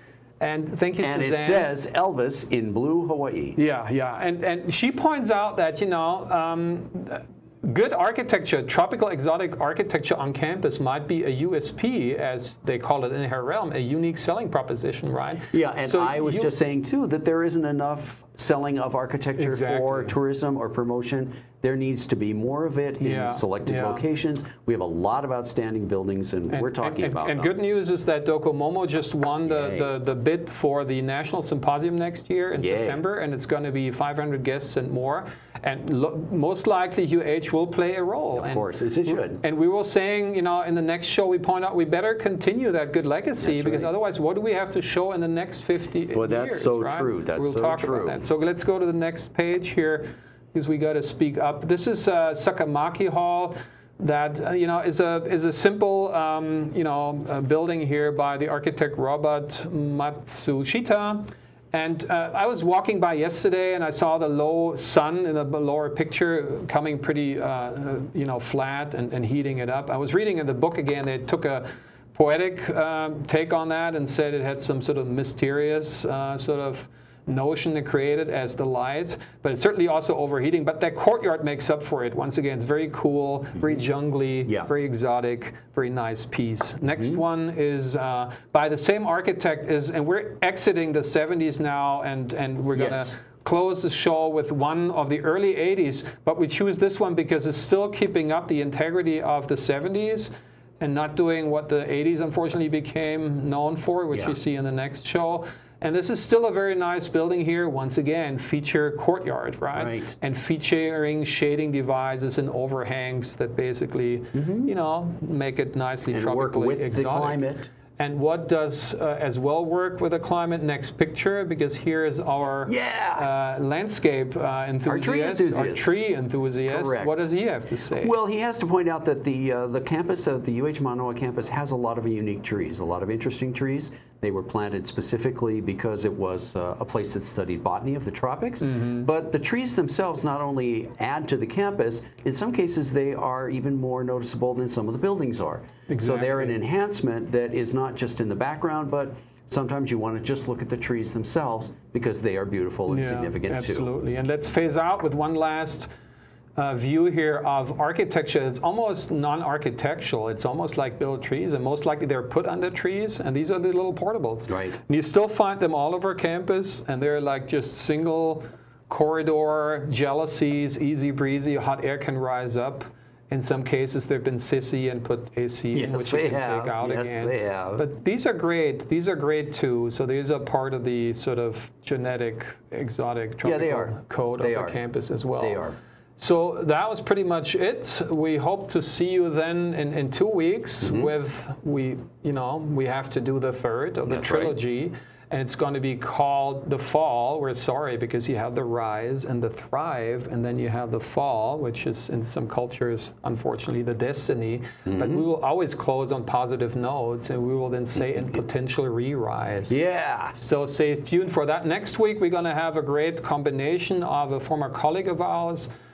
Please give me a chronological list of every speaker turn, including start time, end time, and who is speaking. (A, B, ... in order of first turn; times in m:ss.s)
0:00.4-0:01.7 A
0:01.0-0:03.6 B
0:03.6-0:16.5 A
0:15.5-0:27.5 B
0:19.4-0:20.2 A
0:23.0-0:24.0 A
0:26.5-1:57.5 A
0:29.5-0:29.9 B
0:32.6-0:33.0 B
0:38.4-0:39.4 B
0:43.4-0:43.9 B
0:46.1-0:48.3 B
1:32.8-1:33.1 B
1:49.7-1:50.1 B
1:54.3-1:54.7 B
1:56.1-1:57.7 B
1:58.0-2:08.1 A
2:02.7-2:03.3 B
2:04.9-2:06.0 B
2:06.7-2:07.2 B
2:08.0-2:33.9 B
2:18.6-2:19.1 A
2:25.9-2:26.6 A
2:32.9-2:35.9 A
2:36.6-3:05.6 A
2:44.5-2:44.8 B
2:55.7-2:57.9 B
3:03.4-3:04.8 B
3:05.4-3:05.8 B
3:06.2-3:29.8 A
3:10.8-3:11.1 B
3:14.1-3:14.6 B
3:24.9-3:25.2 B
3:29.7-3:30.4 B
3:30.4-3:35.7 A